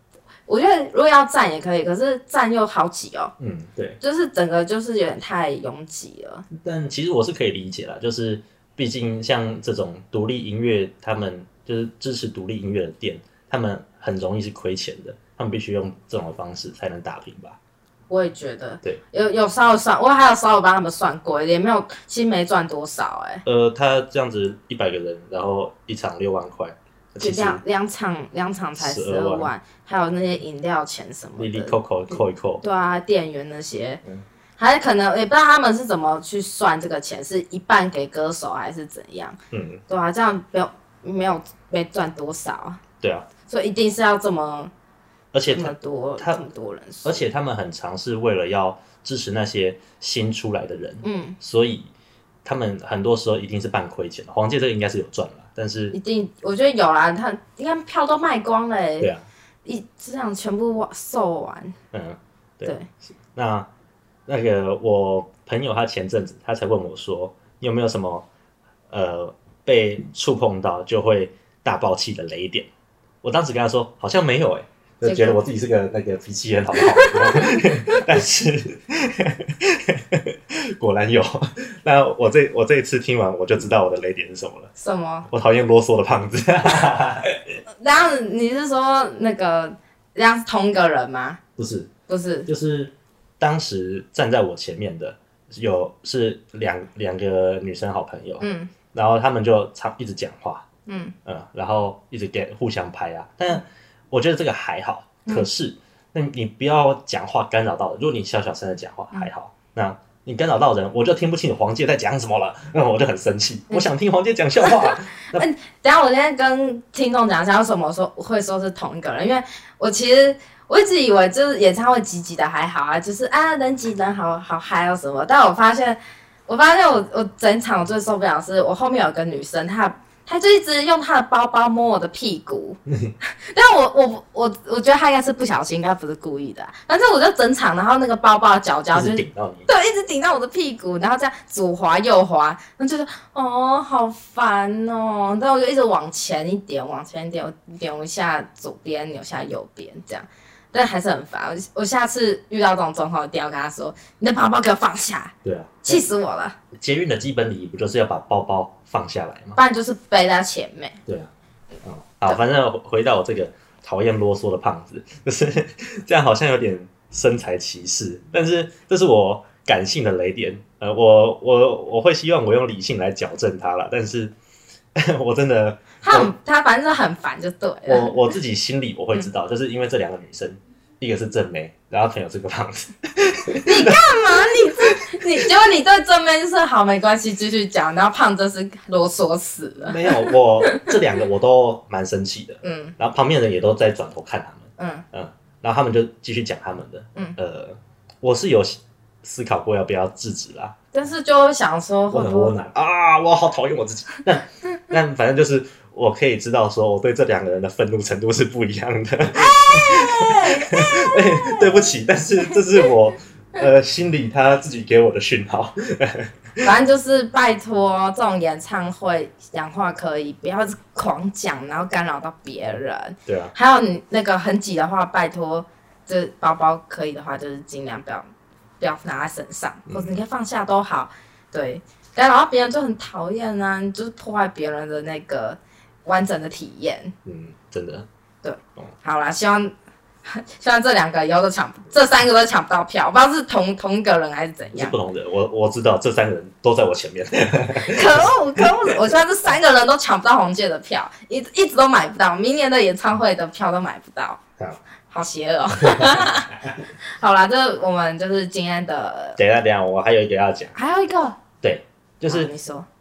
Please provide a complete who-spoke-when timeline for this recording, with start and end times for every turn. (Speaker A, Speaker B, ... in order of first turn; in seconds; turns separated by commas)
Speaker A: 0.5-3.3, Speaker B: 3.4-4.0, Speaker A: 4.0-6.4, Speaker B: 6.5-17.6, Speaker A: 18.1-23.4, Speaker B: 23.4-27.6, Speaker A: 27.2-34.0, Speaker B: 28.8-29.5, Speaker B: 31.4-32.6, Speaker A: 34.6-39.4, Speaker B: 39.5-39.8, Speaker A: 39.9-42.8, Speaker B: 43.0-43.3, Speaker A: 43.5-44.7, Speaker B: 45.3-46.4, Speaker A: 45.5-47.2, Speaker B: 47.0-51.9, Speaker A: 51.0-51.4, Speaker B: 52.4-56.0, Speaker A: 55.9-59.1, Speaker B: 59.0-59.2, Speaker A: 59.6-61.7, Speaker B: 61.9-62.8, Speaker B: 63.3-63.7, Speaker B: 64.3-68.3, Speaker B: 68.9-72.7, Speaker B: 73.2-84.7, Speaker A: 75.0-75.4, Speaker A: 76.8-78.0, Speaker A: 84.8-85.3, Speaker B: 85.3-87.6, Speaker A: 87.8-91.4, Speaker B: 91.6-91.9, Speaker A: 92.1-92.5, Speaker B: 92.5-100.7, Speaker A: 98.4-98.7, Speaker A: 100.8-101.1, Speaker B: 101.2-115.5, Speaker A: 114.6-155.3, Speaker B: 132.9-133.1, Speaker B: 138.9-139.7, Speaker B: 155.4-156.0, Speaker A: 155.8-156.6, Speaker B: 156.7-159.6, Speaker A: 159.6-161.0, Speaker B: 161.8-174.3, Speaker B: 174.9-176.3, Speaker A: 176.0-178.1, Speaker B: 177.9-185.4, Speaker A: 183.7-190.8, Speaker B: 189.8-200.8, Speaker A: 192.6-192.9, Speaker A: 194.8-195.0, Speaker A: 200.9-202.5, Speaker B: 202.1-216.7, Speaker A: 209.3-211.9, Speaker A: 212.5-212.9, Speaker A: 216.6-228.3, Speaker B: 223.2-223.5, Speaker A: 228.8-237.1, Speaker B: 229.9-230.2, Speaker B: 237.2-238.1, Speaker A: 238.4-239.7, Speaker A: 240.2-244.9, Speaker B: 244.7-248.9, Speaker A: 247.8-254.4, Speaker A: 255.1-259.4, Speaker B: 255.8-256.2, Speaker B: 259.4-260.8, Speaker A: 260.8-261.4, Speaker B: 261.6-262.5, Speaker A: 262.3-262.9